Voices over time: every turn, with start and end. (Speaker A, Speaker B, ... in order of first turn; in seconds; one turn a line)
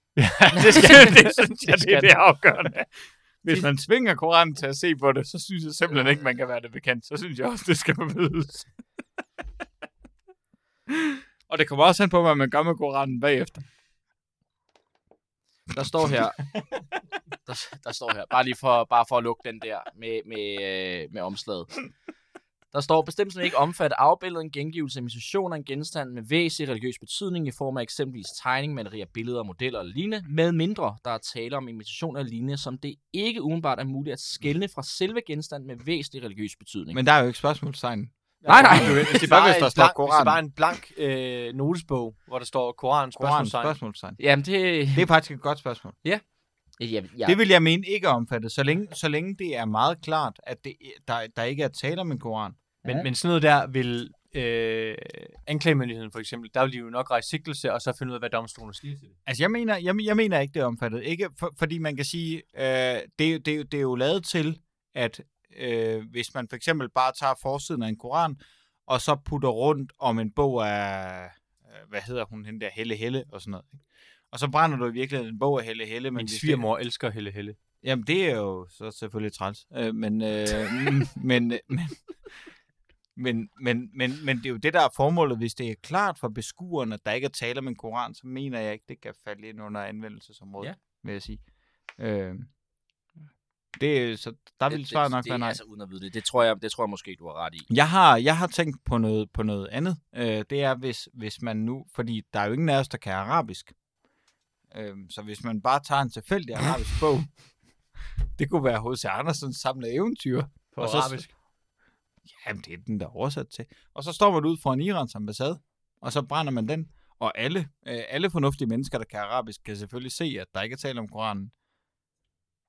Speaker A: 0.1-2.1
Speaker B: 0.5-8.7
Speaker B: 10.9-13.6
Speaker C: 15.7-16.5
Speaker C: 17.4-21.9
Speaker C: 22.7-37.0
Speaker B: 36.9-40.4
Speaker A: 38.4-43.8
Speaker C: 38.5-39.3
Speaker B: 43.2-44.2
Speaker C: 44.2-45.1
Speaker B: 44.9-46.0
Speaker C: 46.8-47.4
Speaker B: 47.2-53.1
Speaker A: 52.9-59.1
Speaker B: 59.2-76.6
Speaker A: 76.1-77.5
Speaker B: 77.8-82.0
Speaker B: 83.1-91.4
Speaker B: 92.0-92.5
Speaker B: 93.8-95.6
Speaker C: 94.7-97.7
Speaker B: 97.7-103.7
Speaker B: 104.7-107.3
Speaker B: 108.4-111.2
Speaker A: 110.7-111.3
Speaker B: 112.3-121.5